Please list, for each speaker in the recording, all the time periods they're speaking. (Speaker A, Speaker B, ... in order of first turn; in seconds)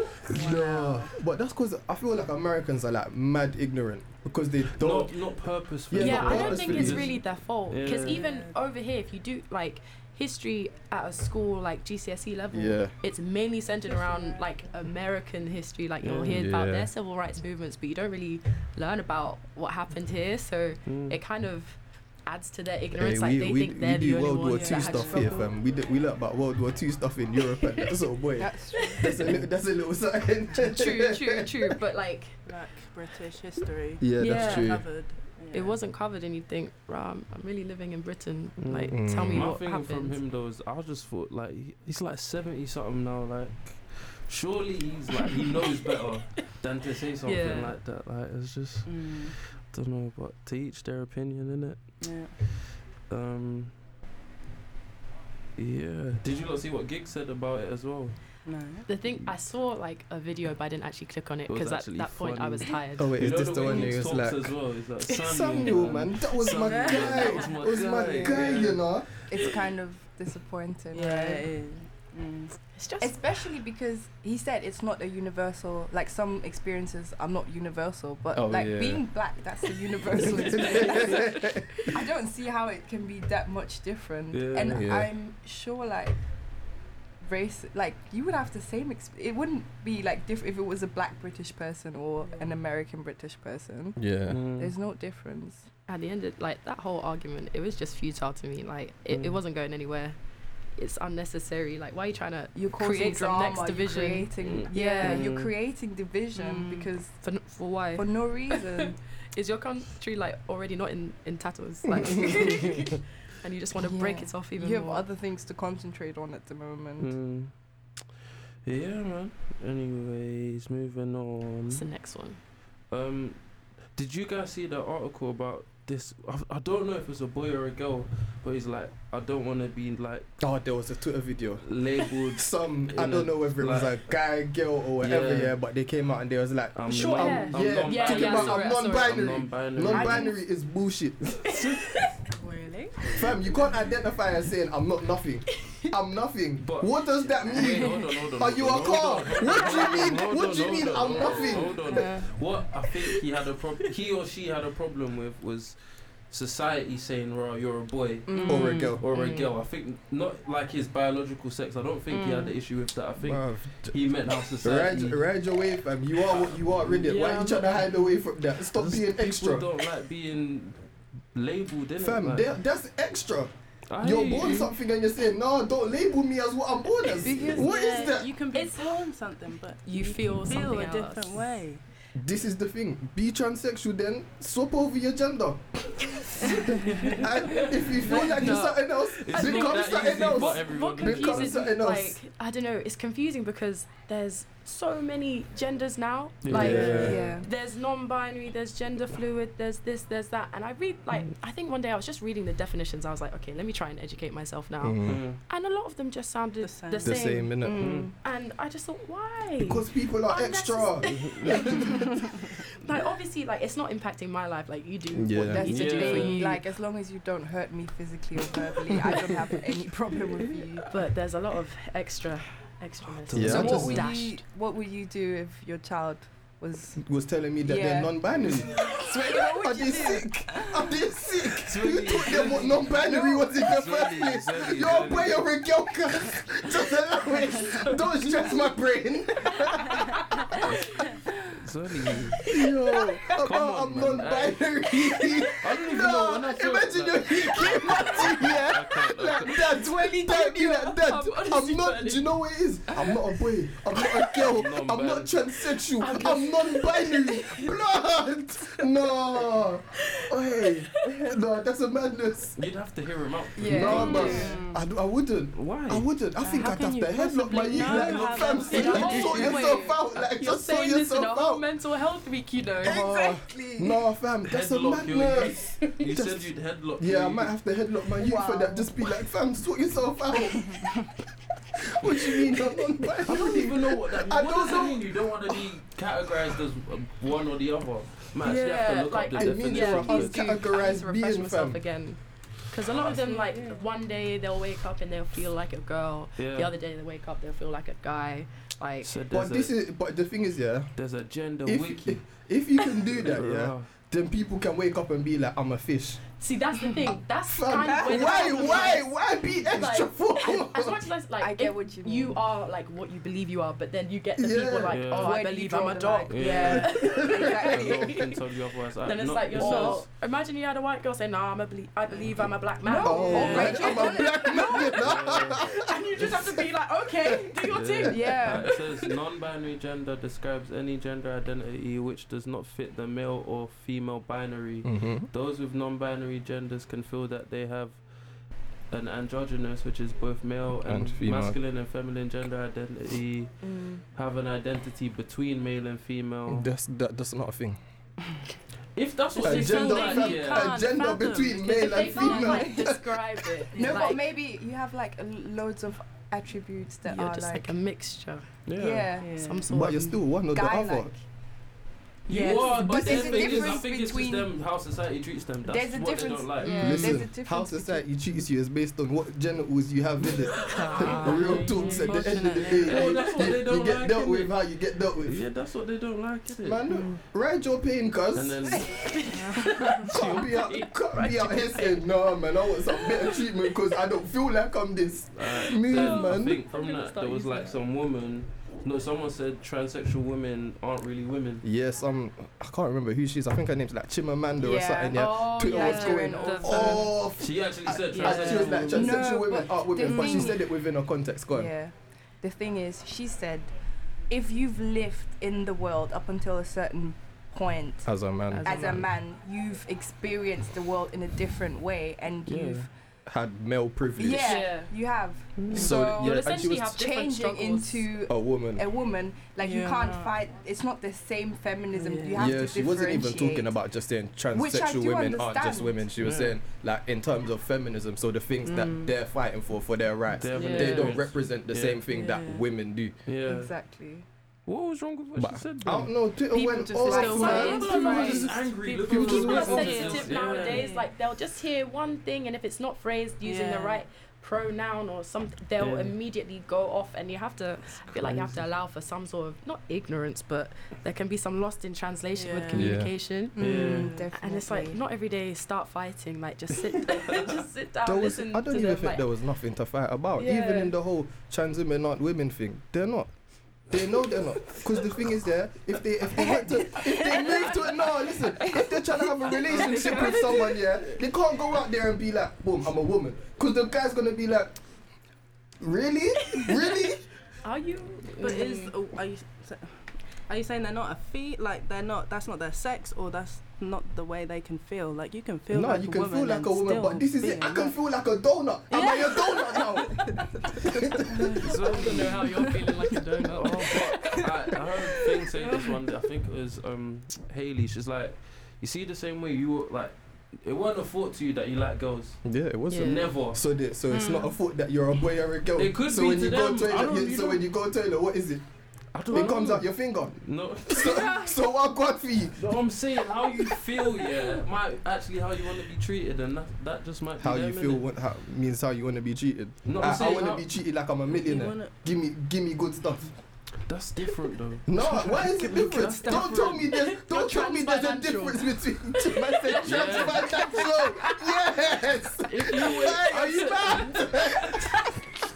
Speaker A: 0.3-5.2, 5.9-7.1, 12.5-12.9, 16.2-16.9, 22.9-31.7, 34.0-34.9, 38.9-39.5, 63.0-64.5, 65.1-69.1, 78.3-79.0, 80.2-81.7, 84.7-85.1, 94.0-94.4, 130.4-131.7, 132.3-141.7, 143.1-152.0, 158.5-159.0, 163.2-164.0, 164.6-169.7, 172.0-178.3, 182.1-192.2, 196.5-197.3, 204.8-205.2, 207.0-208.0, 209.6-212.1, 215.1-215.6, 223.3-224.1, 227.0-240.6, 242.4-262.6, 263.6-271.6, 272.8-281.0, 282.0-285.7, 286.3-286.6, 289.4-291.8, 299.3-300.9, 301.6-306.2, 307.4-311.0, 314.4-315.0, 316.7-317.5, 323.0-326.6, 327.2-327.6, 334.8-335.3, 340.8-341.6, 346.5-347.8, 349.4-353.5, 359.7-361.1, 366.7-375.4, 376.6-379.1, 380.0-386.6, 391.6-401.7, 408.0-409.1, 413.2-414.7, 415.7-417.0, 418.3-418.8, 422.3-433.1, 435.4-440.2, 452.7-453.1, 458.0-463.3, 463.9-474.8, 475.8-477.2, 485.7-491.6, 502.4-508.6, 509.3-512.7, 517.4-523.3, 524.9-534.9
Speaker B: 0.3-1.1, 8.0-8.6, 13.9-14.4, 24.5-25.5, 32.5-35.8, 48.9-49.3, 52.0-52.3, 58.4-58.9, 66.6-67.6, 70.9-72.5, 106.3-106.9, 142.4-143.2, 151.7-152.3, 158.3-158.7, 162.1-162.5, 177.2-181.8, 206.6-208.0, 263.8-264.8, 266.4-269.7, 280.7-280.9, 293.2-293.8, 349.4-352.8, 353.7-354.1, 359.2-359.6, 371.1-373.3, 379.3-380.1, 419.6-420.4, 421.9-422.5, 428.6-429.1, 432.1-432.6, 440.4-441.1, 443.4-444.0, 452.3-453.0, 453.6-454.3, 469.7-470.5, 478.4-488.0, 488.9-492.7, 504.1-504.5, 521.3-521.9
Speaker C: 4.8-8.2, 16.0-16.4, 20.9-21.2, 38.6-53.8, 55.6-58.3, 61.5-69.6, 84.3-84.9, 94.3-94.7, 99.1-99.4, 104.4-105.5, 117.0-117.5, 118.6-121.8, 122.9-123.4, 123.9-130.3, 131.6-134.1, 135.0-135.6, 136.8-140.3, 146.6-165.2, 166.2-168.1, 168.7-170.8, 171.3-172.5, 173.9-174.7, 186.9-187.2, 189.2-191.6, 196.4-197.2, 205.0-205.4, 207.8-208.1, 211.1-211.8, 215.6-216.6, 220.4-220.7, 223.2-224.1, 228.3-228.6, 231.6-235.5, 240.6-242.4, 243.4-244.6, 245.6-249.6, 254.5-255.3, 262.6-264.4, 265.5-266.1, 267.7-269.6, 274.4-277.5, 283.2-290.4, 292.9-293.2, 296.4-296.7, 299.0-299.7, 300.9-302.2, 303.2-303.9, 314.9-315.3, 316.3-317.1, 317.7-320.0, 323.3-323.9, 325.0-325.6, 327.7-338.0, 338.9-346.7, 348.9-350.8, 358.6-359.1, 362.3-367.1, 371.0-371.5, 372.8-374.6, 375.2-376.8, 378.3-379.1, 385.3-391.6, 397.4-399.2, 412.4-412.9, 415.6-415.9, 426.2-426.6, 430.4-432.0, 433.2-433.7, 434.7-436.1, 437.4-440.9, 445.8-446.1, 448.1-448.6, 453.6-454.1, 491.6-492.4, 493.5-502.4, 503.0-503.6, 505.8-507.7, 509.1-509.9, 510.4-511.5, 512.5-518.0, 519.8-520.7, 523.9-526.9, 529.8-530.4, 532.6-534.0
Speaker D: 6.0-25.5, 30.6-32.4, 34.2-34.8, 35.5-40.2, 45.2-46.0, 47.2-47.7, 58.9-63.9, 72.7-73.2, 95.9-100.2, 100.8-105.2, 107.2-115.0, 121.7-122.4, 136.9-139.2, 141.7-142.1, 149.6-150.1, 159.1-159.5, 178.5-179.0, 179.8-181.6, 187.6-216.6, 220.9-224.4, 247.7-248.6, 249.5-252.3, 256.0-257.8, 260.0-260.9, 263.6-264.5, 267.8-273.4, 288.4-299.1, 306.4-318.2, 319.1-328.7, 351.8-354.2, 357.0-358.5, 359.3-360.2, 363.1-363.6, 366.6-367.2, 370.6-372.3, 379.5-383.5, 385.9-387.7, 395.1-397.1, 408.5-409.1, 414.3-414.9, 415.7-418.1, 430.5-431.1, 437.0-453.6, 454.3-459.2, 460.4-460.9, 467.2-468.1, 469.8-470.4, 477.6-478.9, 491.6-494.4, 502.9-503.3, 526.2-531.5, 532.5-534.1
Speaker E: 28.4-29.1, 68.2-68.7, 69.2-71.5, 73.0-86.2, 87.2-94.0, 94.5-95.7, 102.5-107.2, 107.9-109.0, 113.8-117.1, 139.9-140.3, 158.3-158.8, 177.2-177.7, 196.5-197.5, 207.6-208.1, 215.5-220.9, 223.5-227.0, 227.6-228.1, 228.8-230.2, 263.6-264.5, 269.3-269.9, 272.8-273.9, 278.2-279.0, 307.9-309.0, 311.4-312.4, 315.1-318.2, 319.6-320.0, 322.8-324.9, 328.1-328.7, 343.6-344.0, 353.7-357.8, 358.8-359.4, 360.5-361.1, 362.3-364.5, 365.6-368.1, 394.6-397.1, 398.1-400.7, 401.5-403.7, 404.3-408.1, 408.6-412.9, 414.2-423.8, 424.5-426.1, 433.4-434.2, 436.5-438.5, 439.6-440.3, 453.6-455.0, 466.4-467.4, 468.4-468.9